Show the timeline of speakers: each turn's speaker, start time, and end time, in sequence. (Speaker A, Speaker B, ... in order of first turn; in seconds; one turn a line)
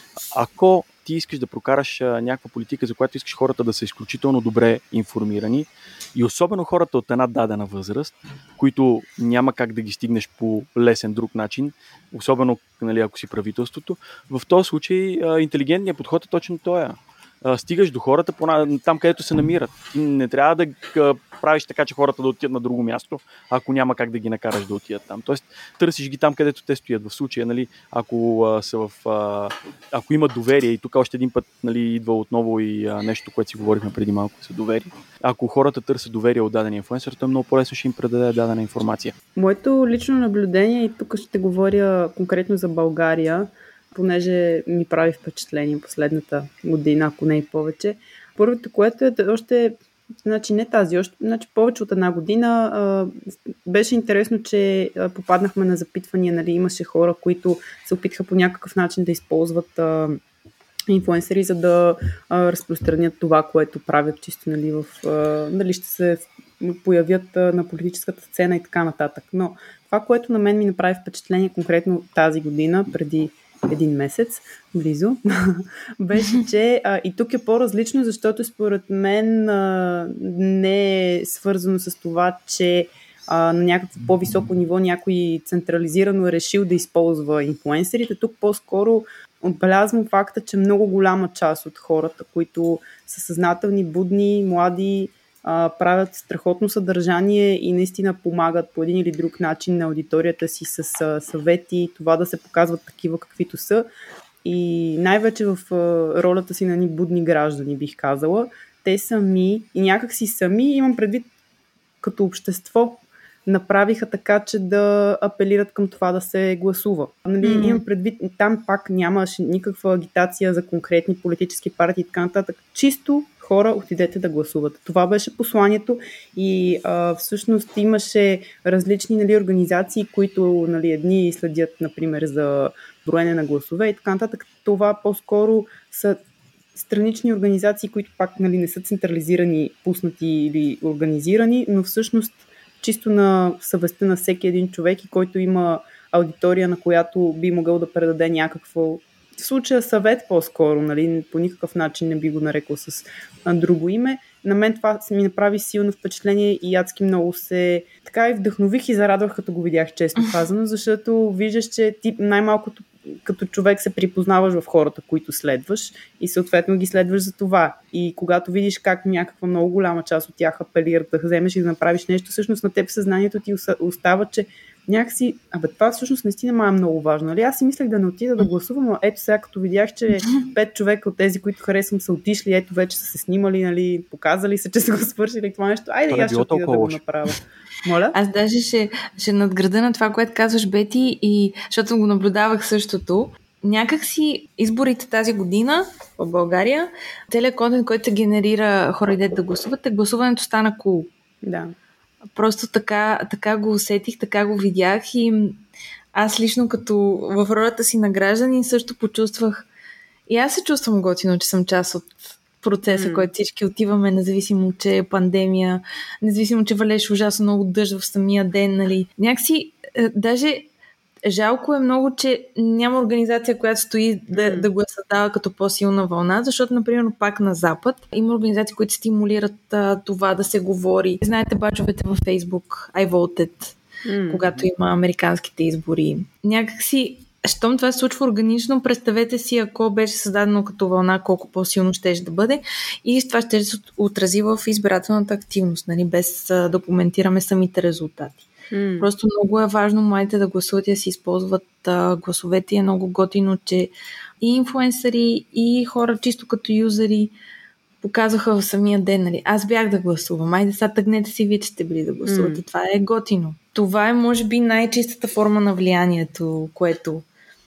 Speaker A: 0.3-39.1
Speaker B: 39.4-60.2
Speaker B: 60.9-103.9
Speaker B: 104.4-111.3
Speaker B: 112.0-136.2
Speaker C: 117.4-117.8
Speaker B: 136.7-188.2
Speaker A: 186.1-187.0
Speaker C: 188.1-201.1
Speaker B: 201.4-201.7
Speaker C: 202.3-205.6
Speaker C: 206.2-209.7
Speaker C: 210.3-220.7
Speaker B: 212.9-213.3
Speaker C: 221.2-257.4
Speaker B: 224.3-224.7
Speaker B: 234.1-234.6
Speaker B: 248.7-249.1
Speaker C: 258.0-267.3
Speaker B: 262.3-262.6